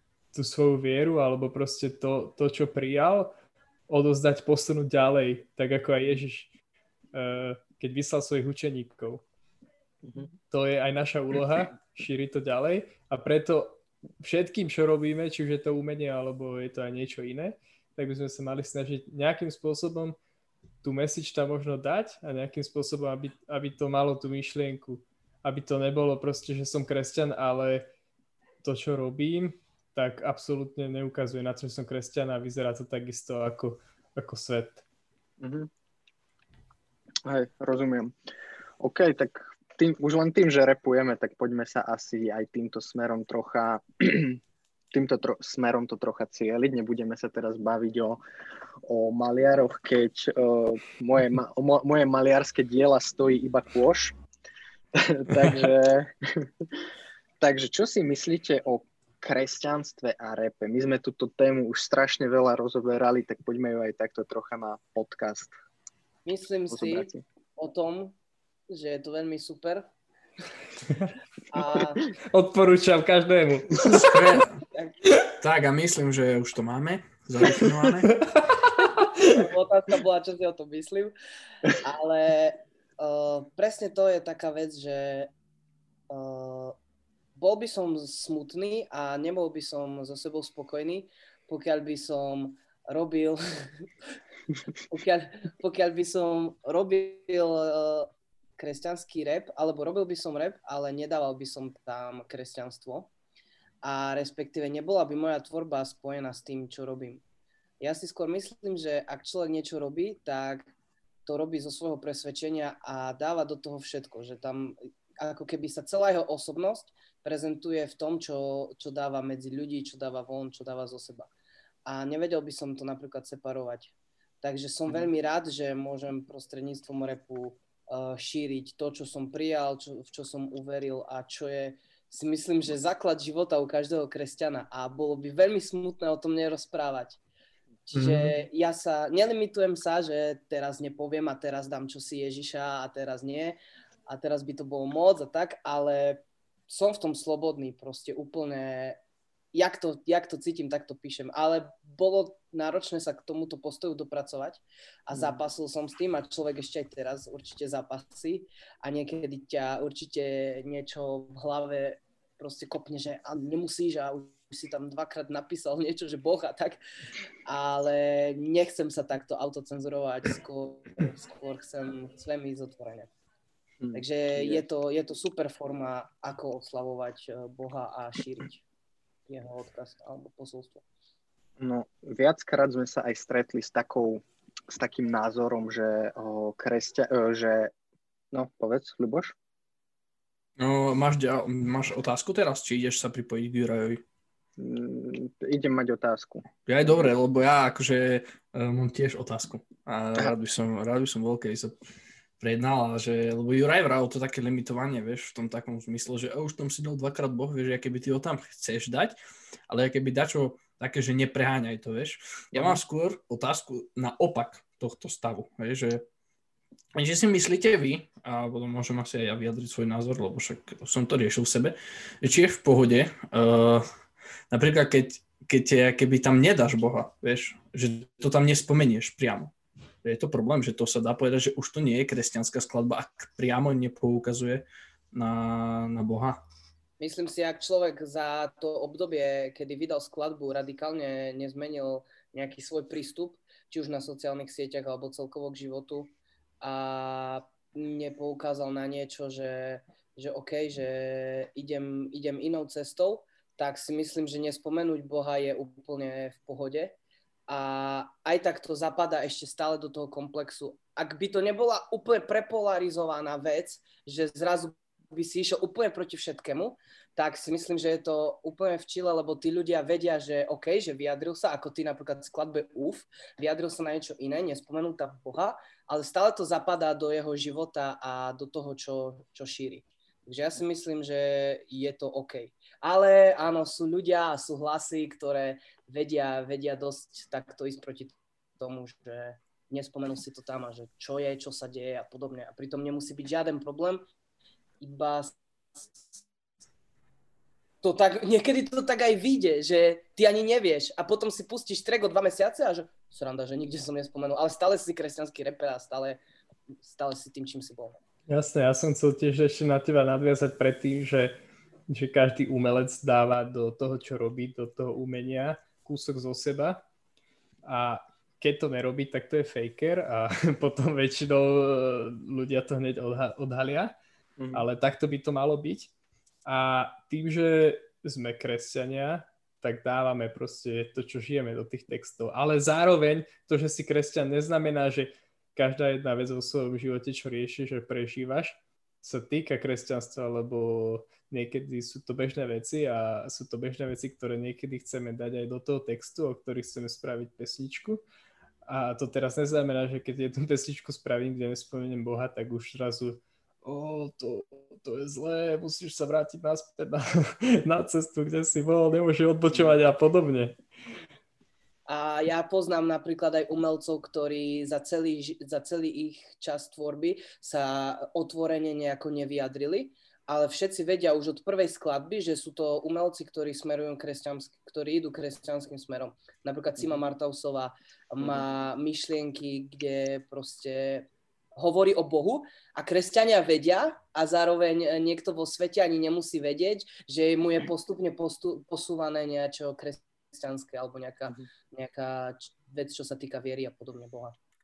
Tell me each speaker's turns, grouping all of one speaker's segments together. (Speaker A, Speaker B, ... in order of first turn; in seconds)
Speaker A: 0.3-3.3, 3.9-6.5, 7.1-9.2, 10.5-20.1, 20.8-27.9, 28.6-34.8, 72.3-74.4, 78.1-79.5, 308.3-311.4, 311.9-316.9, 317.6-323.9, 324.5-325.9, 326.4-348.0, 348.7-360.6
Speaker B: 10.0-10.3, 35.4-35.7, 37.2-38.1, 38.8-44.4, 44.9-48.2, 48.8-54.1, 54.9-56.5, 57.4-65.5, 66.7-67.2, 138.0-138.2, 173.8-174.6, 181.6-187.7, 188.3-189.3, 194.6-196.4, 212.5-212.8, 324.4-324.6, 359.5-359.8
Speaker C: 66.2-68.2, 68.7-69.9, 71.5-72.0, 74.7-75.0, 79.3-81.1, 81.8-85.3, 86.1-86.8, 87.3-93.8, 94.9-103.1, 103.8-107.2, 107.8-110.7, 111.2-121.3, 121.8-137.2, 137.9-149.0, 149.5-166.8, 167.4-173.1, 173.9-178.6, 179.3-180.8, 237.0-256.9, 257.5-294.0, 294.8-296.2, 297.8-306.2, 306.8-308.0, 361.9-394.4
Speaker D: 73.9-74.6, 75.4-78.1, 190.6-194.0, 196.7-201.7, 202.4-209.2, 209.7-216.0, 216.9-223.8, 224.5-236.4